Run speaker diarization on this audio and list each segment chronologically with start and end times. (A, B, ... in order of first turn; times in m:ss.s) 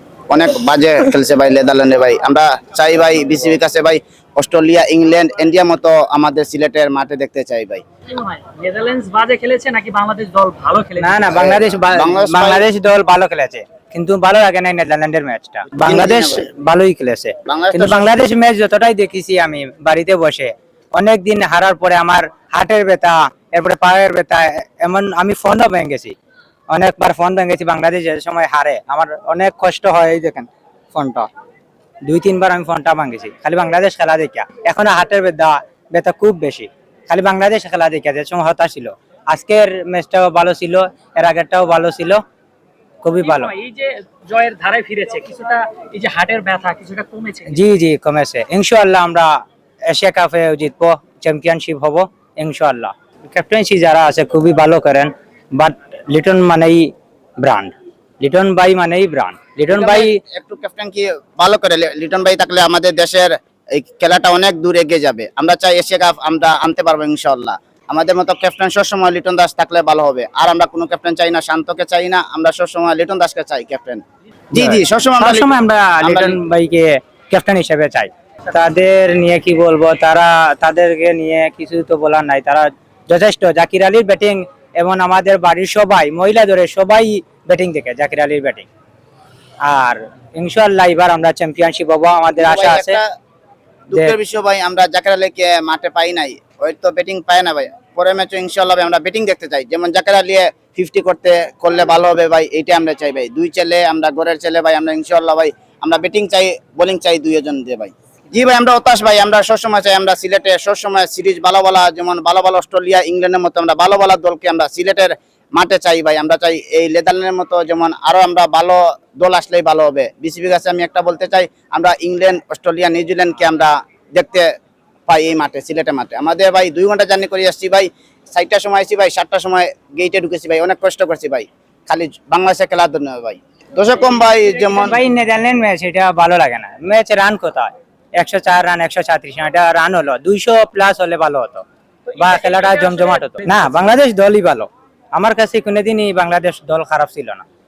0:00.3-0:07.8 A
0:08.1-0:11.3 B
0:11.0-0:26.2 C
0:11.3-0:12.6 A
0:15.7-0:16.5 A
0:17.4-0:18.1 A
0:26.7-0:31.3 C
0:32.0-0:42.2 C
0:43.0-0:43.5 C
0:43.2-0:47.6 B
0:47.5-1:00.2 C
0:59.7-1:14.0 A
1:14.5-1:16.4 A
1:14.5-1:28.7 C
1:29.6-1:33.0 C
1:32.4-1:33.0 A
1:33.9-2:04.5 A
2:05.1-2:15.0 A
2:14.8-2:21.6 C
2:22.1-2:23.8 B
2:22.2-2:27.4 C